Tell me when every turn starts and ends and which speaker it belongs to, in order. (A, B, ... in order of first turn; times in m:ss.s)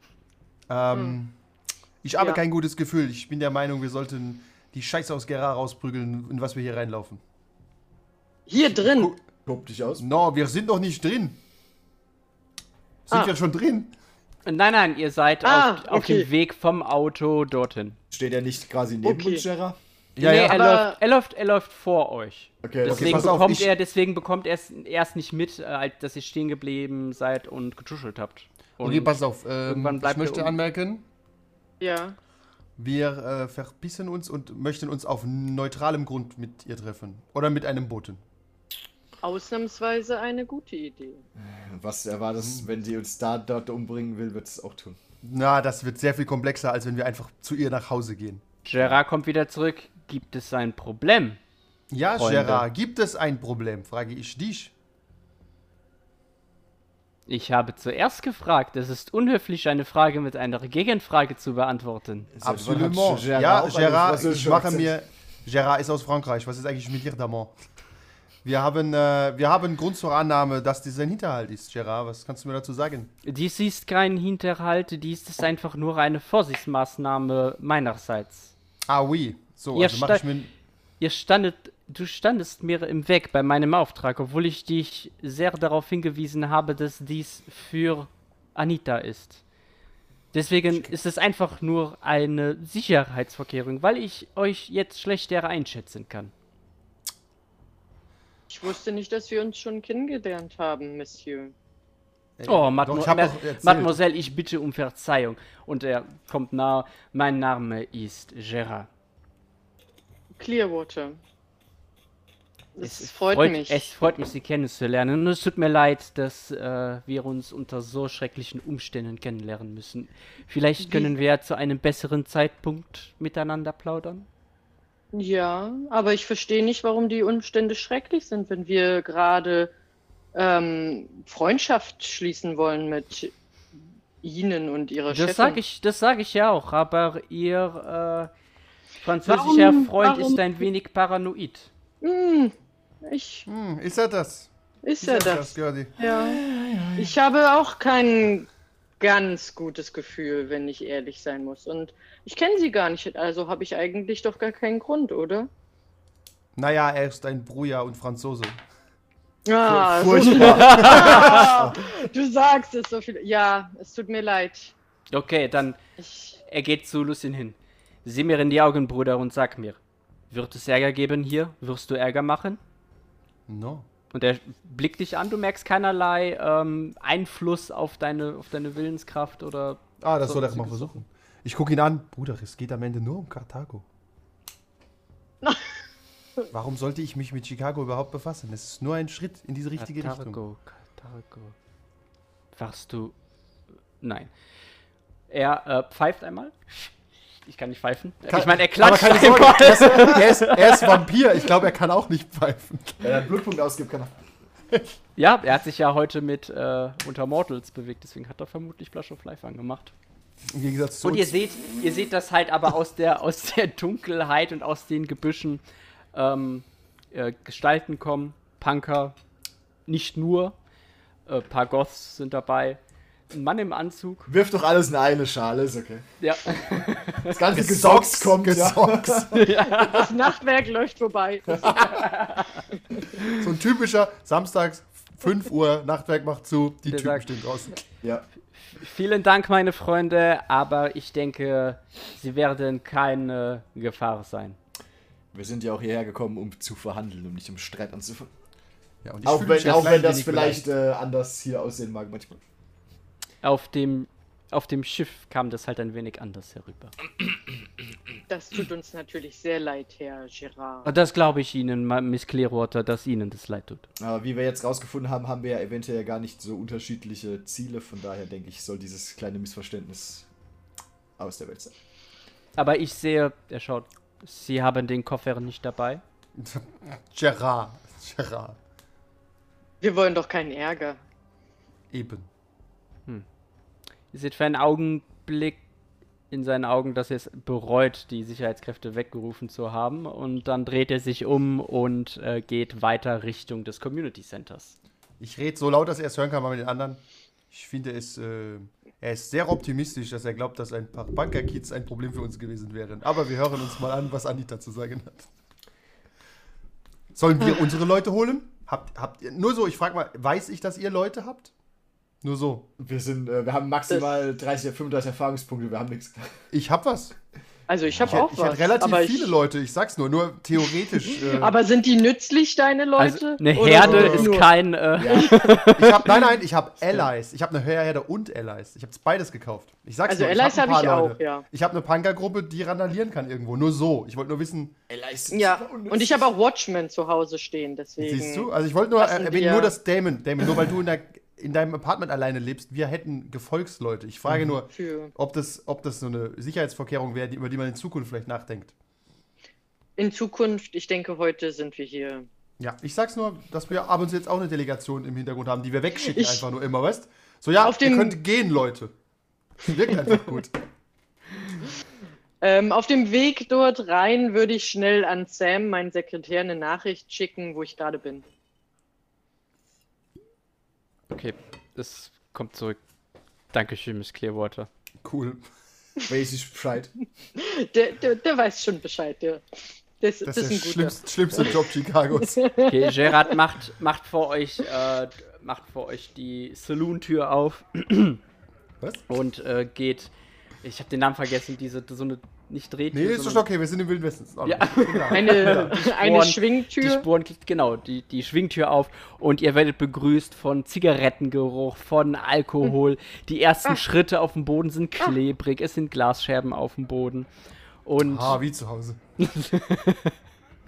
0:00.7-0:01.3 A
0:02.0-0:07.2 A
0:08.5-0:09.1 B
0:08.6-0:09.2 A
0:09.4-0:10.0 C
0:10.0-0:11.4 A
0:13.1-0:13.9 A
0:14.4-0:18.0 D
0:15.4-0:16.3 B
0:18.1-0:19.8 C
0:19.0-0:19.4 B
0:20.2-0:20.9 A
0:20.2-0:30.6 D
0:20.4-0:21.0 B
0:22.6-0:23.4 C
0:22.8-0:23.7 A
0:28.8-0:31.0 A
0:31.8-0:32.2 B
0:32.8-0:38.2 A
0:39.2-0:41.2 B
0:41.4-0:45.0 C
0:42.4-0:42.7 A
0:45.2-0:48.4 A
0:48.6-0:51.4 D
0:51.9-0:54.7 A
0:52.1-0:52.6 D
0:57.3-1:02.3 D
1:02.3-1:04.9 C
1:02.4-1:07.6 A
1:08.4-1:13.1 A
1:13.2-1:18.5 D
1:18.9-1:20.5 A
1:19.7-1:20.3 D
1:21.0-1:29.4 D
1:30.3-1:36.3 D
1:38.5-1:41.5 B
1:42.4-1:44.0 A
1:42.5-1:48.9 D
1:50.4-1:51.2 B
1:52.8-1:53.9 B
1:52.8-2:04.3 D
2:00.8-2:01.1 B
2:05.1-2:09.7 B
2:10.3-2:13.3 B
2:14.2-2:15.6 B
2:15.1-2:18.3 D
2:19.0-2:21.7 D
2:19.2-2:20.4 B
2:22.0-2:23.5 B
2:23.5-2:24.5 A
2:24.8-2:26.4 B
2:25.0-2:26.0 A
2:26.0-2:27.1 C
2:27.0-2:28.5 B
2:29.0-2:35.5 B
2:36.6-2:38.6 A
2:39.4-2:44.8 B
2:39.6-2:42.0 C
2:40.4-2:41.3 D
2:45.1-2:45.8 D
2:46.0-2:46.4 B
2:46.4-2:52.6 D
2:53.5-2:53.9 A
2:54.1-3:01.0 D
3:00.0-3:03.8 A
3:06.5-3:10.4 A
3:09.8-3:11.6 D
3:12.5-3:13.2 D
3:14.0-3:14.3 D
3:15.3-3:16.9 D
3:17.4-3:20.9 D
3:18.3-3:23.2 A
3:19.8-3:20.1 C
3:23.0-3:24.1 C
3:25.2-3:29.9 D
3:30.5-3:31.4 A
3:31.0-3:35.6 D
3:36.1-3:39.2 D
3:39.9-3:40.6 D
3:41.2-3:42.8 D
3:43.3-3:44.3 D
3:44.3-3:49.4 C
3:46.2-3:47.4 D
3:47.5-3:49.5 A
3:49.3-3:50.2 D
3:49.7-3:52.0 B
3:51.6-3:51.9 C
3:51.9-3:52.6 D
3:53.2-3:57.8 A
3:56.8-3:57.2 D
3:58.0-3:58.3 C
3:58.5-4:04.6 D
4:05.3-4:08.3 C
4:09.0-4:10.7 A
4:09.2-4:12.4 C
4:13.4-4:16.9 D
4:18.3-4:20.9 B
4:20.8-4:23.9 D
4:24.0-4:30.3 C
4:31.2-4:31.7 C
4:32.6-4:36.0 D
4:36.4-4:38.6 A
4:39.8-4:41.0 B
4:41.9-4:42.3 A
4:44.1-4:45.6 D
4:46.3-4:54.8 D
4:55.2-5:05.3 A
5:07.1-5:11.5 A
5:12.2-5:12.7 A
5:12.8-5:16.4 C
5:16.5-5:17.2 A
5:17.7-5:19.3 B
5:17.9-5:18.2 C
5:18.0-5:21.6 A
5:21.2-5:24.5 B
5:23.0-5:26.1 D
5:23.7-5:25.4 C
5:23.8-5:24.3 A
5:25.0-5:25.3 B
5:25.8-5:34.8 A
5:30.1-5:31.4 B
5:34.9-5:36.3 C
5:35.3-5:39.7 B
5:38.0-5:48.7 A
5:44.7-5:45.1 B
5:50.0-5:52.2 B
5:52.6-5:58.9 A
5:56.1-5:56.4 B
5:57.6-5:58.2 B
5:59.6-6:00.6 A
6:02.4-6:08.2 B
6:11.1-6:12.8 D
6:13.5-6:14.7 D
6:15.0-6:15.4 A
6:16.1-6:17.0 C
6:17.4-6:23.1 B
6:20.2-6:22.4 A
6:22.6-6:28.2 D
6:28.8-6:29.1 A
6:29.1-6:33.4 D
6:32.9-6:35.7 A
6:34.4-6:47.3 D
6:35.1-6:37.0 B
6:47.8-6:48.4 D
6:48.0-6:49.0 A
6:49.2-6:50.1 D